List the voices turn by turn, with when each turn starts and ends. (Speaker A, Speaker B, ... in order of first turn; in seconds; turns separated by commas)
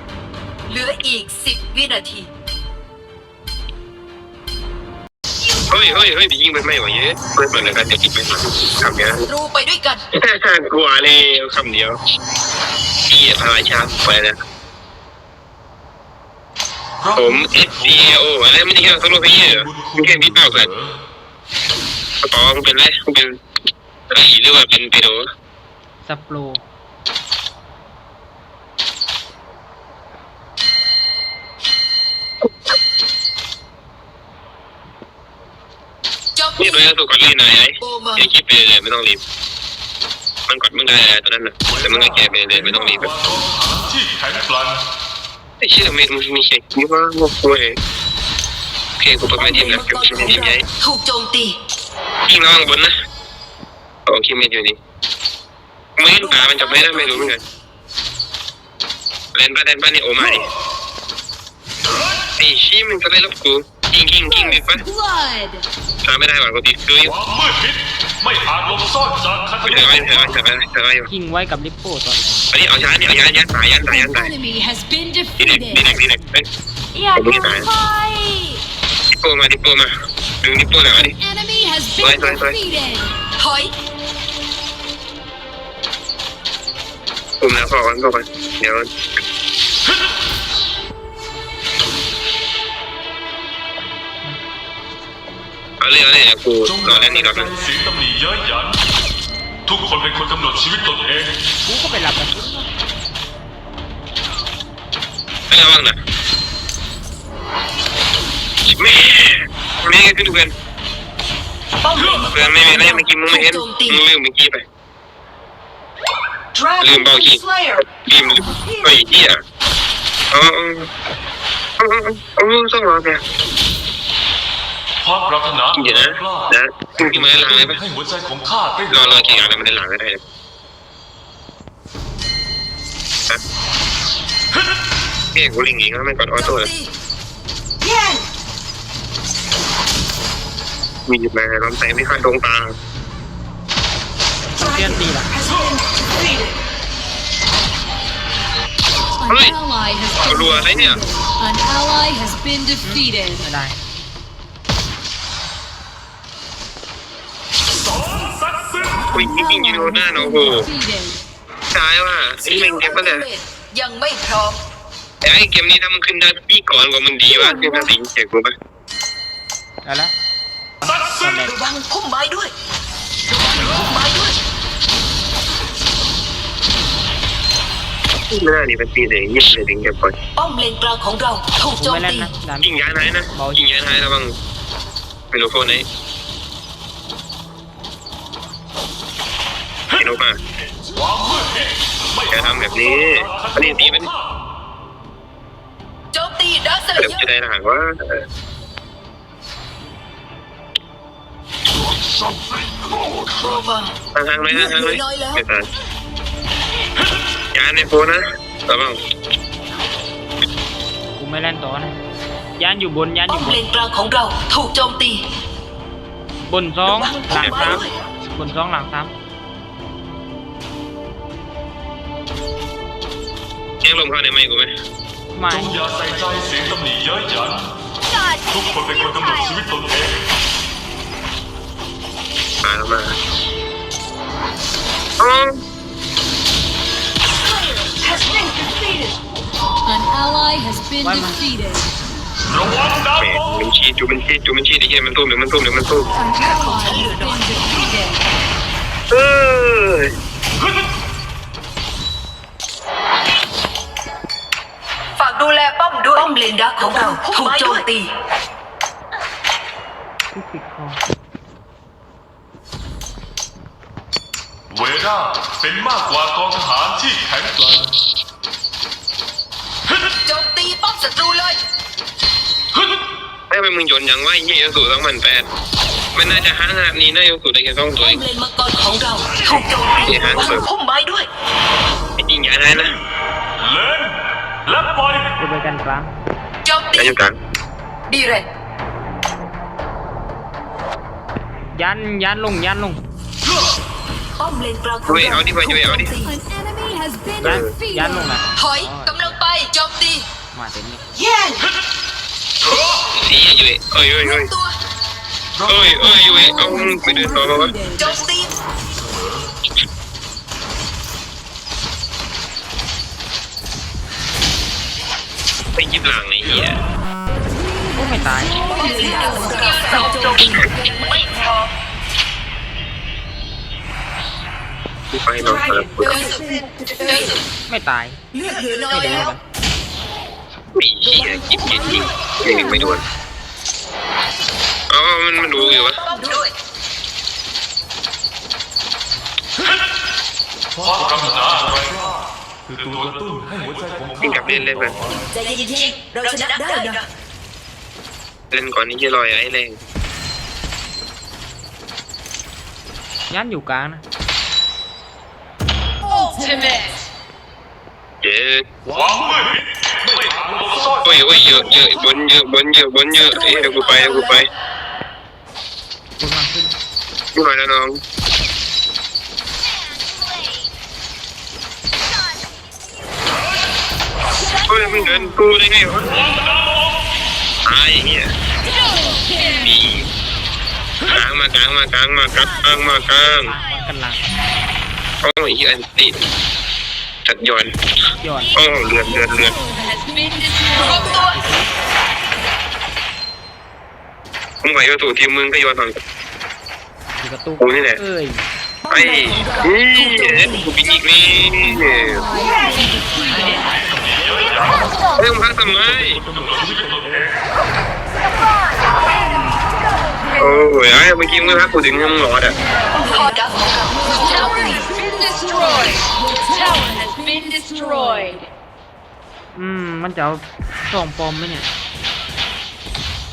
Speaker A: 0.7-2.3, Speaker A: 5.5-6.0, Speaker B: 5.7-9.3, Speaker A: 9.3-10.0, Speaker B: 10.1-11.9, Speaker B: 13.1-14.3, Speaker C: 17.0-18.1, Speaker B: 17.1-20.7, Speaker C: 19.4-20.8, Speaker B: 22.2-23.4, Speaker B: 24.1-25.2, Speaker D: 26.0-26.6, Speaker A: 36.4-36.7, Speaker B: 36.6-39.2, Speaker A: 37.8-38.2, Speaker B: 40.5-43.1, Speaker C: 41.7-44.8, Speaker B: 45.6-47.8, Speaker B: 49.0-50.6, Speaker A: 49.4-51.6, Speaker B: 52.2-52.9, Speaker B: 54.1-54.8, Speaker B: 56.0-57.4, Speaker A: 56.4-57.2, Speaker B: 59.3-60.5, Speaker B: 62.4-64.8, Speaker E: 64.5-65.6, Speaker B: 66.0-67.1, Speaker C: 67.0-70.1, Speaker B: 69.6-71.1, Speaker D: 71.1-72.5, Speaker B: 72.5-74.3, Speaker E: 73.9-75.8, Speaker B: 75.4-76.5, Speaker E: 76.9-78.6, Speaker B: 77.1-77.7, Speaker B: 79.2-81.1, Speaker E: 81.2-83.1, Speaker B: 82.0-82.6, Speaker A: 83.4-83.7, Speaker B: 87.4-88.9, Speaker B: 95.8-97.5, Speaker C: 96.7-98.8, Speaker C: 99.7-101.3, Speaker D: 101.7-102.7, Speaker B: 105.5-106.0, Speaker B: 108.7-110.5, Speaker A: 111.8-112.2, Speaker B: 112.1-114.6, Speaker A: 112.8-114.0, Speaker B: 116.8-119.4, Speaker B: 120.3-120.9, Speaker B: 121.8-123.2, Speaker C: 125.0-126.5, Speaker B: 125.7-127.8, Speaker C: 127.1-129.5, Speaker B: 128.8-130.2, Speaker B: 135.3-136.7, Speaker B: 141.1-142.7, Speaker D: 144.5-145.3, Speaker E: 149.3-153.4, Speaker B: 149.3-149.6, Speaker B: 150.2-151.0, Speaker D: 152.8-153.8, Speaker B: 159.1-160.7, Speaker E: 159.4-161.2, Speaker B: 161.7-163.3, Speaker A: 162.4-164.6, Speaker B: 165.2-168.5, Speaker D: 169.8-170.1, Speaker D: 170.9-171.6, Speaker A: 171.5-172.5, Speaker A: 173.3-174.4, Speaker B: 178.3-180.1, Speaker A: 180.3-182.3, Speaker D: 181.8-183.6, Speaker B: 182.6-184.3, Speaker B: 185.3-185.8, Speaker B: 189.9-190.4, Speaker C: 190.9-194.0, Speaker B: 192.3-194.1, Speaker A: 196.1-197.2, Speaker B: 196.9-198.2, Speaker A: 203.4-203.9, Speaker B: 204.1-205.6, Speaker A: 204.5-205.4, Speaker B: 207.5-209.0, Speaker D: 211.2-211.9, Speaker D: 212.6-213.6, Speaker A: 213.3-215.2, Speaker D: 216.5-219.1, Speaker A: 216.9-217.9, Speaker B: 217.3-217.8, Speaker B: 223.8-224.7, Speaker D: 225.3-226.3, Speaker C: 225.5-227.7, Speaker C: 228.5-230.1, Speaker B: 232.6-233.1, Speaker B: 235.2-235.6, Speaker E: 239.9-241.9, Speaker D: 241.0-241.5, Speaker C: 242.7-243.1, Speaker B: 243.2-246.1, Speaker E: 246.2-248.2, Speaker A: 246.4-247.7, Speaker B: 249.1-250.1, Speaker A: 255.2-258.1, Speaker D: 260.3-261.0, Speaker C: 264.7-267.9, Speaker A: 270.2-271.6, Speaker B: 273.5-275.4, Speaker B: 276.1-278.2, Speaker A: 278.0-281.3, Speaker C: 279.4-279.7, Speaker B: 280.0-280.6, Speaker B: 282.2-282.9, Speaker C: 283.6-284.1, Speaker C: 284.7-285.2, Speaker D: 285.4-286.1, Speaker A: 286.6-287.1, Speaker B: 286.9-287.4, Speaker A: 288.1-288.4, Speaker D: 291.7-293.0, Speaker A: 294.4-296.3, Speaker B: 295.1-296.1, Speaker E: 296.2-297.6, Speaker B: 297.4-297.7, Speaker D: 297.4-299.4, Speaker A: 298.6-300.2, Speaker D: 300.5-301.0, Speaker A: 301.2-301.6, Speaker B: 303.2-304.5, Speaker A: 304.2-304.7, Speaker B: 305.6-307.8, Speaker C: 306.2-306.5, Speaker E: 306.7-307.2, Speaker A: 308.0-308.5, Speaker B: 315.8-316.8, Speaker D: 317.9-319.3, Speaker A: 319.1-321.7, Speaker B: 325.2-326.3, Speaker A: 326.1-327.3, Speaker D: 327.7-328.2, Speaker D: 328.7-329.4, Speaker B: 330.8-333.0, Speaker B: 334.9-336.2, Speaker A: 336.0-336.5, Speaker C: 340.8-342.2, Speaker C: 342.7-345.2, Speaker B: 344.2-345.0, Speaker A: 345.3-347.1, Speaker B: 348.5-349.8, Speaker D: 353.3-354.0, Speaker B: 358.2-358.6, Speaker C: 358.9-361.0, Speaker B: 361.0-364.5, Speaker D: 366.2-366.7, Speaker B: 367.3-368.0, Speaker B: 374.7-376.2, Speaker B: 377.6-378.3, Speaker B: 379.6-380.0, Speaker B: 381.1-383.5, Speaker D: 383.4-384.2, Speaker B: 385.2-386.1, Speaker B: 387.2-387.7, Speaker D: 388.2-388.5, Speaker B: 388.5-389.6, Speaker A: 390.9-391.2, Speaker B: 394.6-395.9, Speaker D: 397.2-398.4, Speaker B: 397.6-398.0, Speaker B: 398.9-402.2, Speaker C: 403.8-405.0, Speaker B: 405.1-406.2, Speaker C: 405.9-407.3, Speaker B: 410.4-412.6, Speaker A: 413.0-414.6, Speaker E: 414.4-415.9, Speaker E: 416.6-418.4, Speaker D: 419.5-421.7